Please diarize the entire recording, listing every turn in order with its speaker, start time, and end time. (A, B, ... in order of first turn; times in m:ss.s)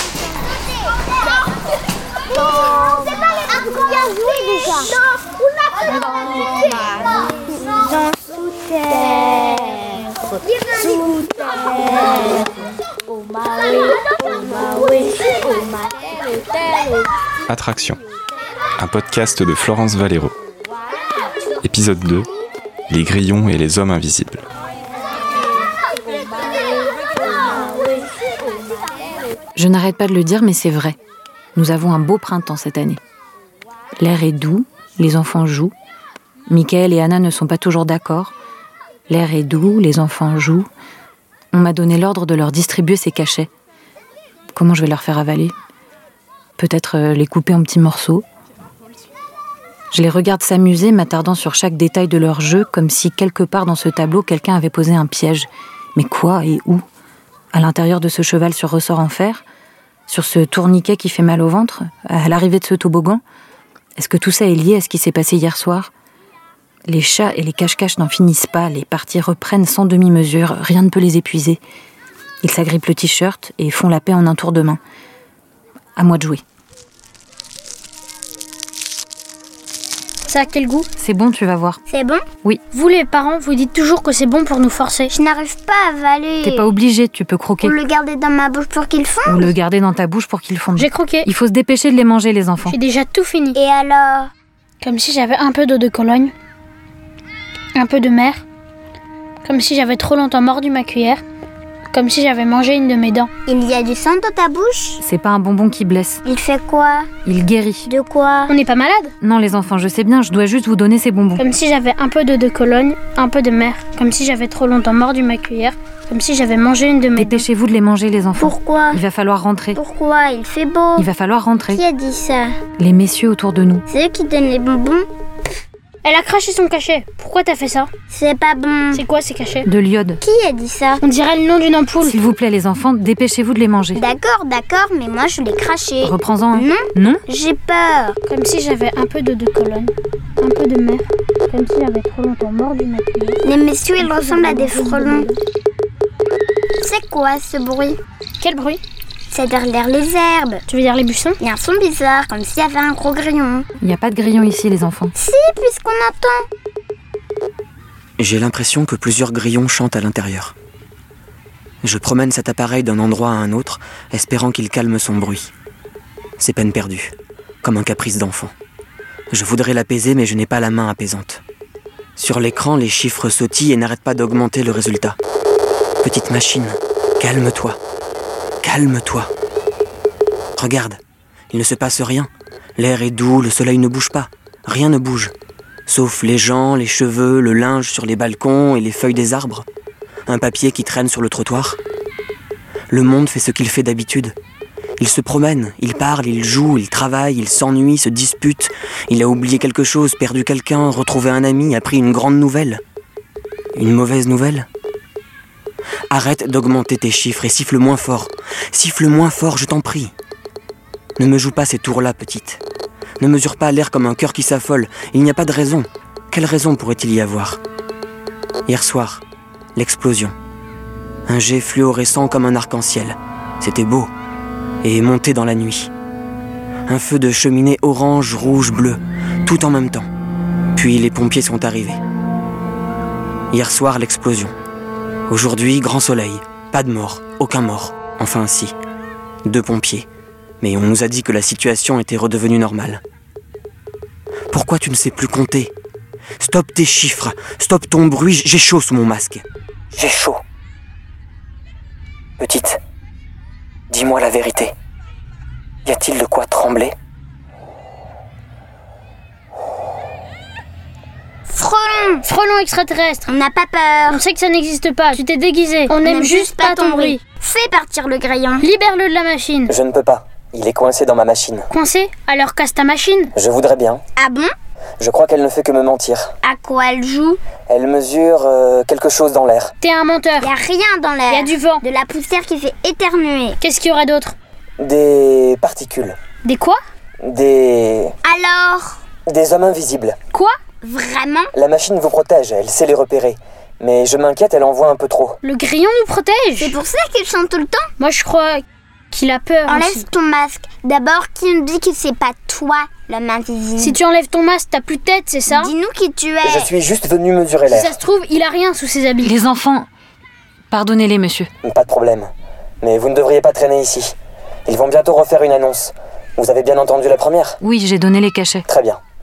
0:10.8-0:11.3 A
0:11.9-0:12.2 A
0:17.5-0:18.0 B
0:18.8-0:20.3 B
0:21.6-0:22.3 B
0:22.9-0:24.4 B
0:29.6-0:31.0 C
0:31.5-0:33.0 C
0:34.0-0:35.7 C
0:36.5-0:38.3 C
0:39.1-0:40.7 C
0:41.5-0:43.5 C
0:44.5-0:45.5 C
0:46.6-0:48.2 C
0:49.9-0:56.8 C
0:57.5-0:59.4 C
1:00.1-1:03.2 C
1:04.0-1:05.9 C
1:06.9-1:11.6 C
1:12.4-1:14.8 C
1:16.0-1:16.4 C
1:20.3-1:20.9 D
1:21.0-1:21.8 C
1:21.9-1:22.2 A
1:22.7-1:25.1 D
1:25.1-1:26.7 A
1:26.4-1:27.8 C
1:27.6-1:29.5 A
1:29.2-1:32.8 C
1:30.8-1:31.3 D
1:32.6-1:33.6 D
1:33.5-1:34.3 A
1:34.8-1:36.3 D
1:37.8-1:38.4 D
1:39.4-1:41.2 D
1:41.9-1:43.3 D
1:43.5-1:45.0 A
1:45.0-1:46.2 C
1:46.2-1:47.1 A
1:47.2-1:47.9 C
1:47.8-1:48.5 A
1:48.5-1:49.1 D
1:49.2-1:51.4 C
1:51.4-1:57.4 D
1:57.2-1:59.8 C
1:58.4-1:59.0 A
1:59.7-2:01.1 A
2:01.0-2:01.8 C
2:01.7-2:02.6 A
2:02.8-2:03.8 C
2:03.9-2:05.1 A
2:06.0-2:07.9 D
2:08.1-2:09.0 A
2:08.9-2:09.7 D
2:09.6-2:10.2 C
2:10.2-2:11.0 A
2:11.0-2:12.2 D
2:12.0-2:14.0 C
2:13.9-2:18.2 A
2:16.0-2:17.2 C
2:18.3-2:23.4 D
2:23.4-2:25.3 A
2:24.0-2:25.4 D
2:26.8-2:28.0 A
2:28.4-2:28.8 D
2:29.3-2:30.6 A
2:30.7-2:31.4 D
2:31.4-2:33.6 A
2:33.8-2:35.1 C
2:35.2-2:36.4 A
2:38.2-2:40.5 E
2:41.8-2:45.5 E
2:46.4-2:48.5 E
2:49.3-2:51.4 E
2:52.2-2:55.2 E
2:56.0-2:57.8 E
2:58.6-2:59.3 E
3:00.6-3:01.0 E
3:01.5-3:05.3 E
3:05.9-3:09.6 E
3:10.3-3:11.8 E
3:12.9-3:14.3 E
3:15.0-3:22.8 E
3:23.7-3:24.7 E
3:26.1-3:30.1 E
3:31.2-3:32.6 E
3:33.2-3:37.6 E
3:38.7-3:39.2 E
3:39.7-3:40.3 E
3:41.3-3:44.1 E
3:44.8-3:45.9 E
3:46.9-3:50.1 E
3:50.8-3:52.0 E
3:53.5-3:54.5 E
3:55.3-3:58.8 E
3:59.4-4:00.1 E
4:00.6-4:03.0 E
4:04.5-4:05.7 E
4:06.4-4:10.4 E
4:12.4-4:12.8 E
4:13.9-4:14.7 E
4:15.8-4:16.9 E
4:21.5-4:22.2 A
4:22.2-4:23.3 D
4:23.3-4:24.2 A
4:24.1-4:27.2 D
4:25.9-4:28.6 A
4:28.6-4:29.7 D
4:29.7-4:31.7 E
4:31.7-4:33.3 D
4:33.3-4:34.0 E
4:34.2-4:34.5 A
4:35.0-4:36.3 E
4:36.4-4:37.4 A
4:37.7-4:39.7 E
4:39.8-4:40.5 D
4:40.4-4:43.6 A
4:41.3-4:41.8 D
4:43.6-4:44.3 D
4:44.8-4:46.2 E
4:46.4-4:46.8 D
4:47.2-4:48.1 E
4:48.2-4:49.0 A
4:49.3-4:50.2 E
4:50.8-4:51.5 A
4:51.5-4:55.4 E
4:55.4-4:56.8 D
4:56.6-4:57.8 A
4:58.0-5:00.1 D
4:59.6-5:04.0 A
5:03.8-5:05.7 D
5:05.5-5:06.7 A
5:06.4-5:07.9 E
5:07.6-5:09.3 D
5:09.2-5:09.9 C
5:10.7-5:11.5 C
5:11.6-5:12.3 E
5:12.8-5:14.1 E
5:14.6-5:17.6 E
5:17.6-5:18.6 C
5:18.6-5:19.0 E